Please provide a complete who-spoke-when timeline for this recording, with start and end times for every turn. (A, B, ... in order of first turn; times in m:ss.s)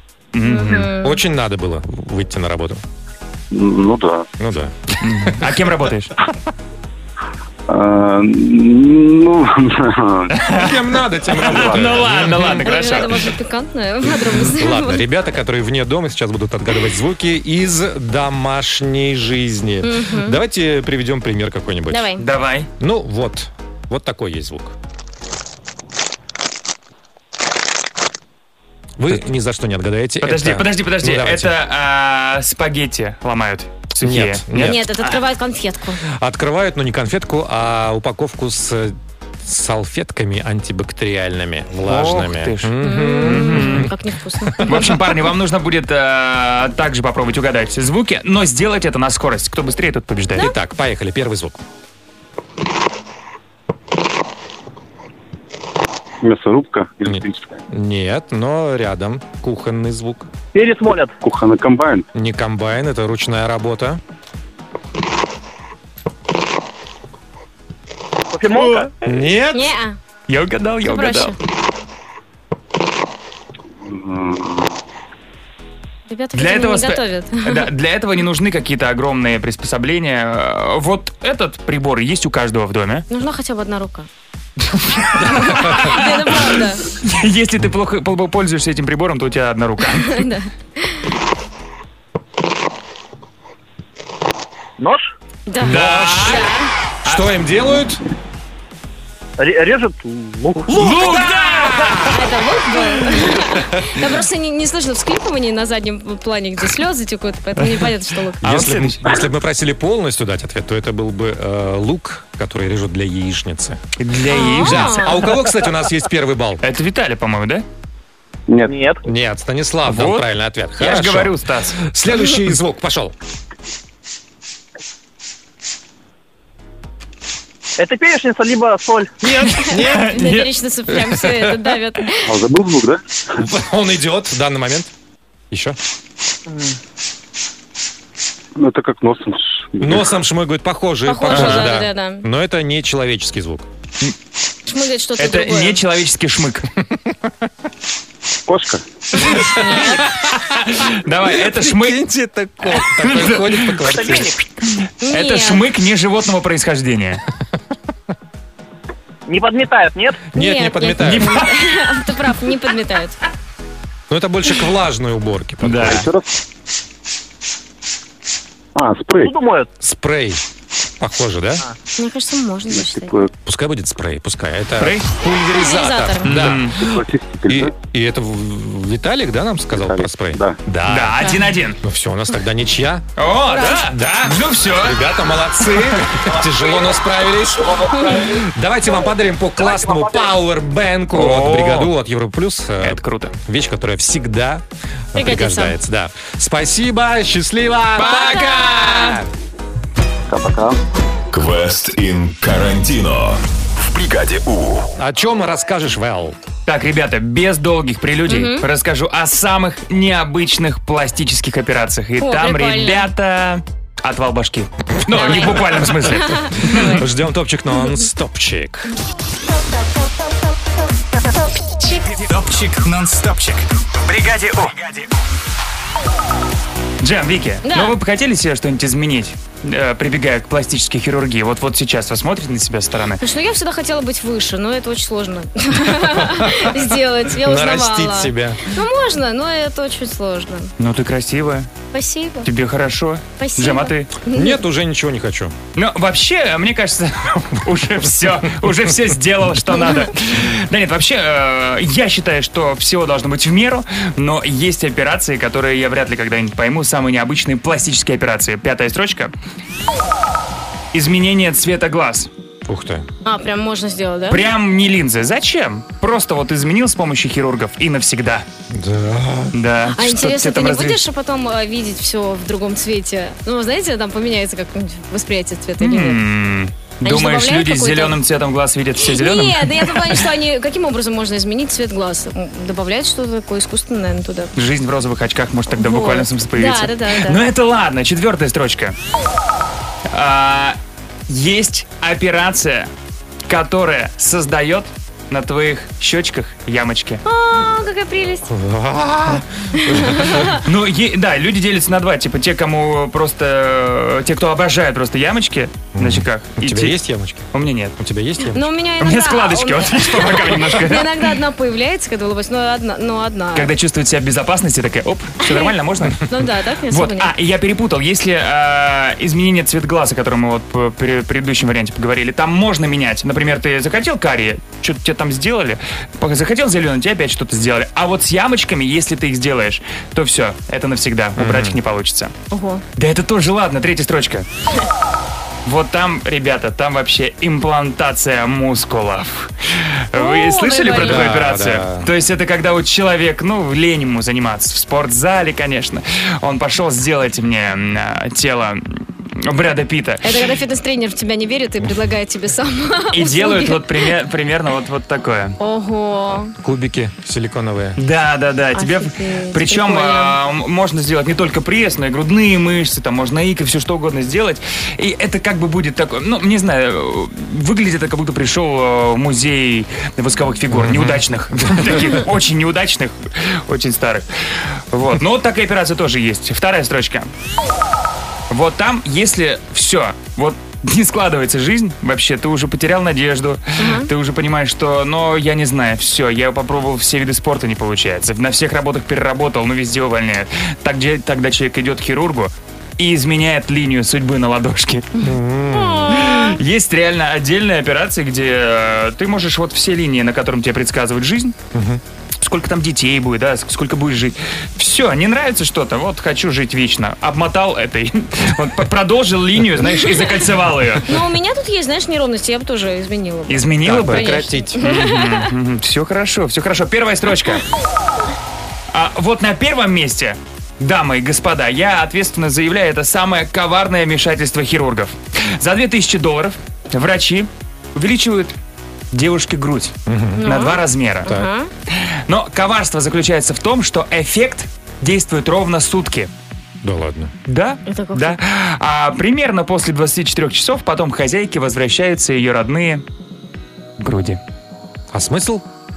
0:00.3-0:00.9 A
0:00.4-0:01.2 B
0:01.0-0:02.8 C
0:03.5-0:04.2 D
0:04.4-0:05.0 C
0:05.0-0:06.1 A
0:07.7-0:10.3 D
0:10.3-0:13.3 A
0:10.6-0:12.8 C
0:12.6-0:15.0 B
0:14.4-0:22.1 C
0:19.8-0:20.4 B
0:21.9-0:22.2 B
0:22.2-0:22.7 A
0:22.8-0:24.7 C
0:29.0-0:31.6 C
0:30.2-0:35.1 A
0:34.0-0:34.8 C
0:34.5-0:36.0 B
0:36.0-0:43.9 C
0:41.8-0:43.9 A
0:42.8-0:44.8 B
0:44.4-0:44.8 C
0:44.6-0:50.5 A
0:50.4-0:51.6 C
0:56.2-0:57.4 D
0:57.0-1:00.3 C
1:00.5-1:01.2 E
1:01.2-1:02.0 D
1:02.1-1:04.0 C
1:08.3-1:08.9 E
1:09.0-1:09.7 C
1:09.5-1:10.0 B
1:10.3-1:11.3 A
1:10.9-1:11.4 B
1:13.9-1:14.6 D
1:16.1-1:17.7 B
1:16.3-1:23.0 A
1:23.1-1:24.1 B
1:25.0-1:30.2 A
1:25.2-1:26.8 B
1:30.0-1:31.0 B
1:34.8-1:35.1 E
1:35.5-1:36.7 B
1:35.6-1:36.5 C
1:35.7-1:36.5 A
1:37.0-1:38.0 C
1:39.4-1:40.7 E
1:40.7-1:42.1 C
1:40.7-1:42.1 A
1:42.1-1:48.4 B
1:48.4-1:49.1 A
1:48.4-1:53.8 C
1:54.0-1:55.3 A
1:54.3-1:55.2 B
1:54.6-1:56.6 C
1:56.6-1:57.6 A
1:58.6-1:59.0 E
1:59.0-2:03.1 C
1:59.9-2:01.8 A
2:07.8-2:09.1 E
2:09.2-2:10.2 C
2:09.4-2:12.3 B
2:09.7-2:10.5 A
2:10.9-2:11.6 C
2:12.2-2:13.0 D
2:13.4-2:14.9 C
2:15.5-2:15.8 C
2:18.6-2:20.2 D
2:19.8-2:23.6 C
2:21.0-2:22.2 B
2:21.3-2:21.7 A
2:24.6-2:25.8 B
2:25.2-2:26.7 A
2:28.5-2:28.8 D
2:29.2-2:30.1 B
2:30.4-2:32.0 A
2:31.4-2:34.3 C
2:32.7-2:34.1 A
2:33.9-2:34.4 E
2:35.0-2:35.6 B
2:35.1-2:37.2 A
2:39.3-2:40.2 E
2:40.3-2:41.3 C
2:40.3-2:43.2 B
2:41.0-2:41.4 A
2:44.1-2:46.0 C
2:45.6-2:46.1 A
2:45.8-2:46.2 D
2:48.8-2:49.3 D
2:49.2-2:49.7 E
2:49.8-2:50.4 C
2:51.0-2:51.6 C
2:52.0-2:53.2 B
2:52.9-2:53.3 D
2:53.4-3:01.3 C
2:54.8-2:55.0 A
2:55.5-2:56.4 B
2:56.2-2:56.8 A
2:56.8-2:57.7 D
2:59.7-3:00.5 D
3:00.9-3:01.8 A
3:01.8-3:03.0 C
3:03.2-3:05.0 A
3:03.5-3:03.8 B
3:03.6-3:19.3 C
3:05.6-3:06.0 A
3:07.9-3:08.3 B
3:11.1-3:11.9 A
3:12.8-3:13.3 A
3:15.2-3:15.7 B
3:18.0-3:19.2 B
3:20.3-3:20.7 D
3:21.3-3:24.9 F
3:25.0-3:26.4 C
3:26.6-3:37.0 A
3:28.3-3:28.6 B
3:32.2-3:33.1 B
3:35.1-3:37.0 B
3:37.0-3:38.9 C
3:42.0-3:45.1 G
3:47.0-3:53.2 A
3:47.6-3:47.9 B
3:53.2-4:00.7 B
3:56.0-3:56.7 C
3:57.4-3:58.6 C
4:00.8-4:01.7 A
4:01.9-4:02.5 B
4:02.4-4:04.1 A
4:03.4-4:04.6 B
4:04.3-4:05.6 C
4:05.7-4:19.3 A
4:20.9-4:22.3 A
4:22.7-4:23.1 C
4:23.2-4:24.4 B
4:24.3-4:28.4 A
4:28.7-4:29.5 C
4:29.5-4:31.0 A
4:29.9-4:36.2 B
4:35.8-4:40.2 A
4:37.0-4:38.2 B
4:39.0-4:44.5 B
4:44.6-4:48.9 A
4:45.7-4:47.4 B
4:50.1-4:52.9 A
4:53.5-4:57.2 A
4:57.2-4:58.5 B
4:58.5-5:00.5 C
4:59.8-5:00.6 B
5:00.6-5:07.0 A
5:05.9-5:08.7 C
5:07.5-5:07.9 A
5:08.5-5:13.7 B
5:09.0-5:11.4 A
5:13.5-5:16.3 A
5:15.4-5:17.3 B
5:16.9-5:32.3 A
5:31.4-5:31.8 C
5:32.5-5:32.8 B
5:33.0-5:34.4 A
5:35.6-5:50.5 A
5:40.2-5:41.3 B
5:41.0-5:42.1 C
5:50.2-5:54.1 B
5:53.1-5:55.6 A
5:55.6-5:56.5 B
5:56.6-5:58.0 C
5:58.0-6:14.3 A
5:58.7-6:00.4 B
6:10.7-6:11.2 C
6:14.9-6:17.3 A
6:18.5-6:35.1 A
6:23.8-6:24.1 B
6:35.2-6:36.6 B
6:35.2-6:36.2 C
6:36.1-6:41.5 A
6:41.7-6:42.0 C
6:42.4-6:51.1 A
6:51.0-6:55.4 B
6:53.5-6:57.6 A
6:53.8-6:54.7 C
6:58.9-7:08.5 A
7:09.1-7:11.4 A
7:10.1-7:10.5 C
7:10.4-7:11.7 B
7:11.9-7:16.3 A
7:16.8-7:17.3 C
7:17.4-7:23.0 A
7:17.8-7:18.4 B
7:24.0-7:24.4 A
7:25.1-7:25.6 C